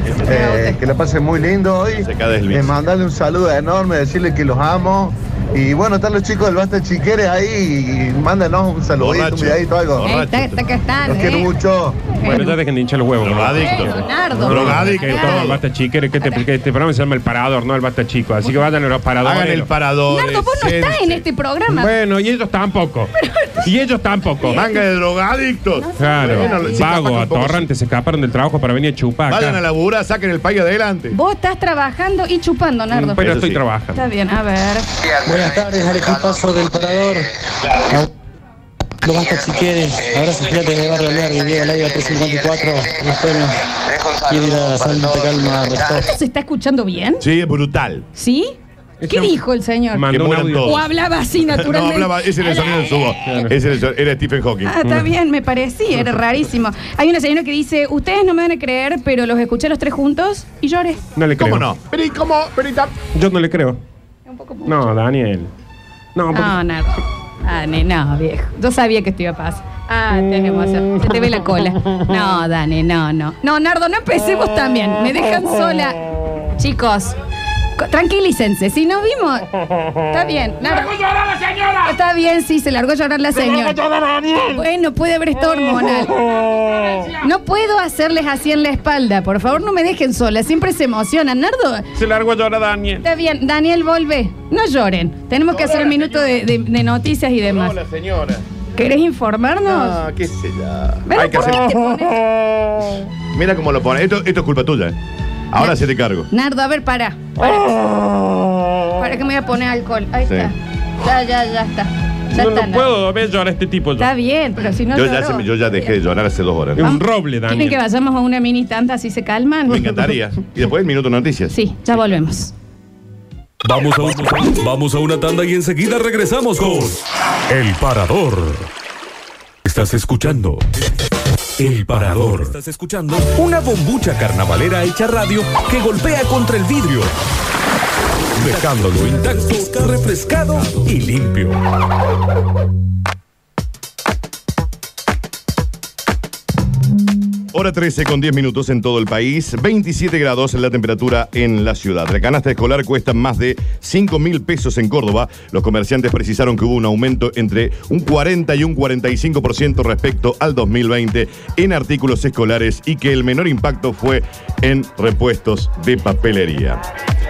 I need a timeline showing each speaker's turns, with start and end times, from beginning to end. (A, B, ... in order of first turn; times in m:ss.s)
0:00.2-0:10.1 A
0:00.2-0:00.8 B
0:02.0-0:02.8 C
0:09.0-0:10.6 C
0:10.0-0:11.5 B
0:11.0-0:12.1 A
0:12.2-0:12.5 B
0:12.3-0:19.7 D
0:13.2-0:15.6 C
0:13.6-0:15.5 B
0:19.2-0:21.2 C
0:20.1-0:21.9 B
0:21.7-0:23.1 D
0:23.2-0:23.5 B
0:23.6-0:24.6 D
0:24.4-0:24.8 B
0:24.5-0:27.7 C
0:25.8-0:26.9 B
0:26.0-0:29.6 D
0:29.3-0:31.2 C
0:31.1-0:33.2 B
0:32.9-0:34.0 D
0:33.2-0:33.6 C
0:33.9-0:34.9 B
0:35.0-0:37.3 E
0:39.0-0:46.1 E
0:46.1-0:47.2 B
0:47.2-0:48.0 C
0:48.2-0:50.0 B
0:49.0-0:49.4 D
0:49.9-0:50.7 D
0:50.1-0:50.9 C
0:50.6-0:53.4 B
0:51.4-0:54.7 C
0:53.2-0:53.5 D
0:54.6-1:01.0 B
1:01.2-1:01.7 D
1:01.3-1:03.0 C
1:03.1-1:03.8 D
1:04.3-1:04.9 B
1:04.6-1:05.5 D
1:06.1-1:06.5 D
1:06.3-1:16.0 B
1:16.5-1:17.2 B
1:17.8-1:19.4 B
1:20.1-1:23.8 B
1:24.4-1:26.3 B
1:27.1-1:31.8 B
1:32.0-1:33.0 D
1:33.0-1:37.8 B
1:35.5-1:36.5 C
1:37.4-1:38.4 C
1:38.8-1:40.0 B
1:39.6-1:41.7 C
1:41.0-1:42.2 B
1:43.3-1:45.0 C
1:45.5-1:46.3 C
1:46.3-1:47.7 B
1:49.0-1:52.9 B
1:50.2-1:50.5 C
1:52.3-1:54.1 D
1:54.0-1:55.5 B
1:54.9-1:56.9 C
1:56.8-1:57.8 D
1:56.8-2:00.1 B
1:59.7-2:01.6 C
2:01.5-2:02.5 B
2:03.6-2:08.7 F
2:09.6-2:10.6 F
2:11.6-2:17.1 F
2:18.4-2:21.6 F
2:27.5-2:46.8 C